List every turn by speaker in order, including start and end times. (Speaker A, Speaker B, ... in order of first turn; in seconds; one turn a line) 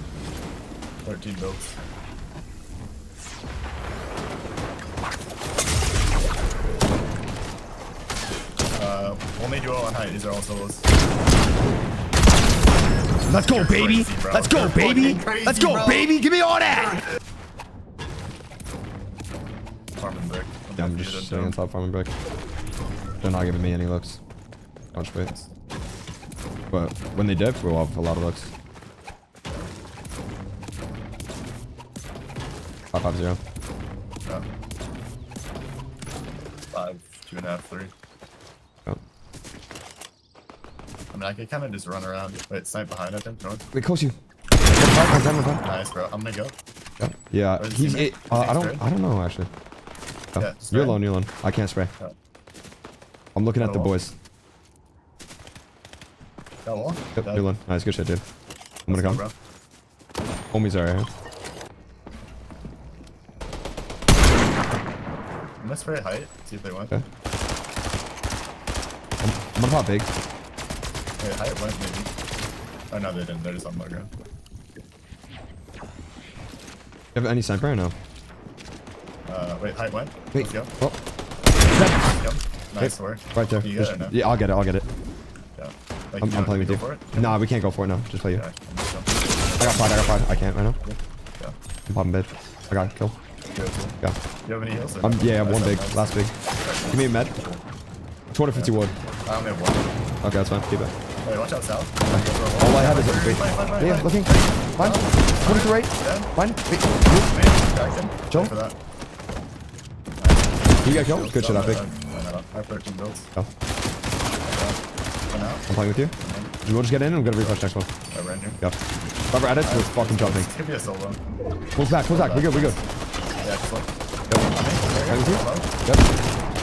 Speaker A: 1.0-1.8
Speaker A: 8.7-10.9
Speaker B: 13.2-17.0
Speaker A: 13.3-15.9
Speaker A: 20.0-21.5
Speaker B: 20.8-22.1
Speaker B: 23.2-24.2
Speaker A: 24.9-25.5
Speaker B: 24.9-25.3
Speaker B: 26.7-28.5
Speaker B: 32.9-33.4
Speaker A: 36.7-37.9
Speaker A: 41.1-43.6
Speaker B: 43.7-44.1
Speaker B: 44.8-45.6
Speaker A: 45.6-46.5
Speaker B: 47.0-49.5
Speaker A: 47.5-48.8
Speaker B: 50.3-51.9
Speaker A: 50.4-51.0
Speaker B: 53.3-54.1
Speaker A: 53.6-53.9
Speaker A: 56.6-57.4
Speaker B: 57.2-58.2
Speaker B: 58.9-59.2
Speaker A: 58.9-59.3
Speaker B: 60.5-61.1
Speaker A: 65.6-67.0
Speaker B: 69.2-70.1
Speaker A: 71.2-72.1
Speaker A: 72.9-74.1
Speaker B: 77.1-77.9
Speaker A: 79.2-80.7
Speaker B: 80.3-81.0
Speaker B: 81.7-82.1
Speaker A: 82.1-84.2
Speaker B: 82.8-84.8
Speaker A: 85.5-87.4
Speaker B: 86.2-88.4
Speaker A: 88.3-90.2
Speaker B: 89.6-90.8
Speaker A: 90.8-91.5
Speaker B: 91.9-93.1
Speaker A: 93.5-97.6
Speaker B: 95.0-96.3
Speaker B: 96.9-97.3
Speaker B: 98.3-98.9
Speaker A: 99.2-99.9
Speaker B: 100.2-100.9
Speaker A: 101.2-106.3
Speaker B: 102.1-107.3
Speaker A: 107.1-108.7
Speaker A: 110.2-113.3
Speaker B: 110.8-111.8
Speaker A: 114.4-114.8
Speaker A: 115.3-116.5
Speaker B: 115.7-116.1
Speaker B: 116.6-117.9
Speaker A: 117.3-118.6
Speaker B: 119.3-120.5
Speaker A: 119.6-121.2
Speaker B: 121.8-122.8
Speaker A: 122.1-122.8
Speaker A: 123.4-123.9
Speaker A: 124.4-125.7
Speaker B: 125.0-126.1